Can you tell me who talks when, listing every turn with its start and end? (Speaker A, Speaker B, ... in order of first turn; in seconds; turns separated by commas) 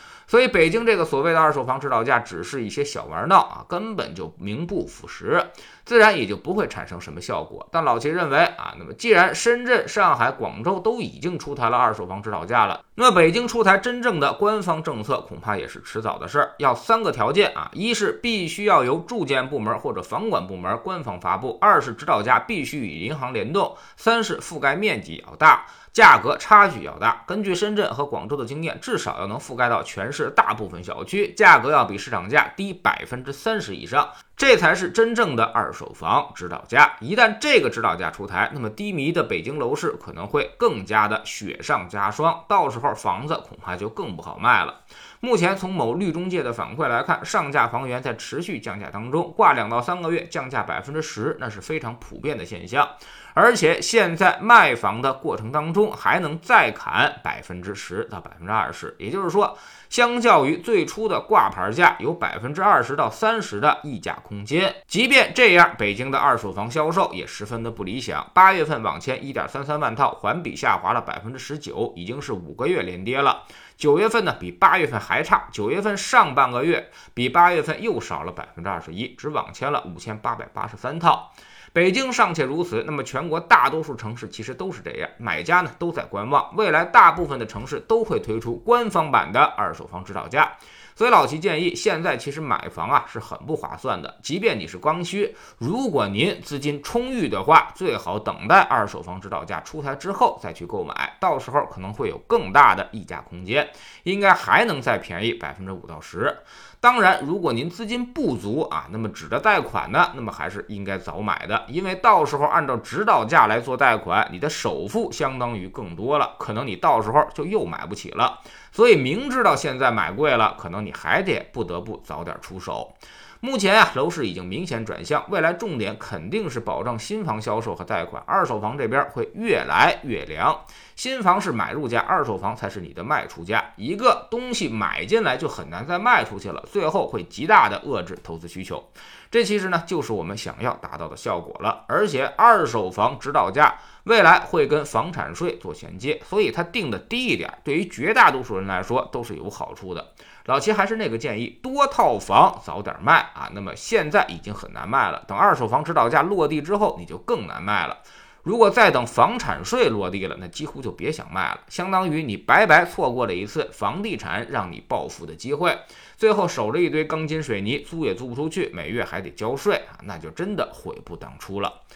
Speaker A: 0.3-171.8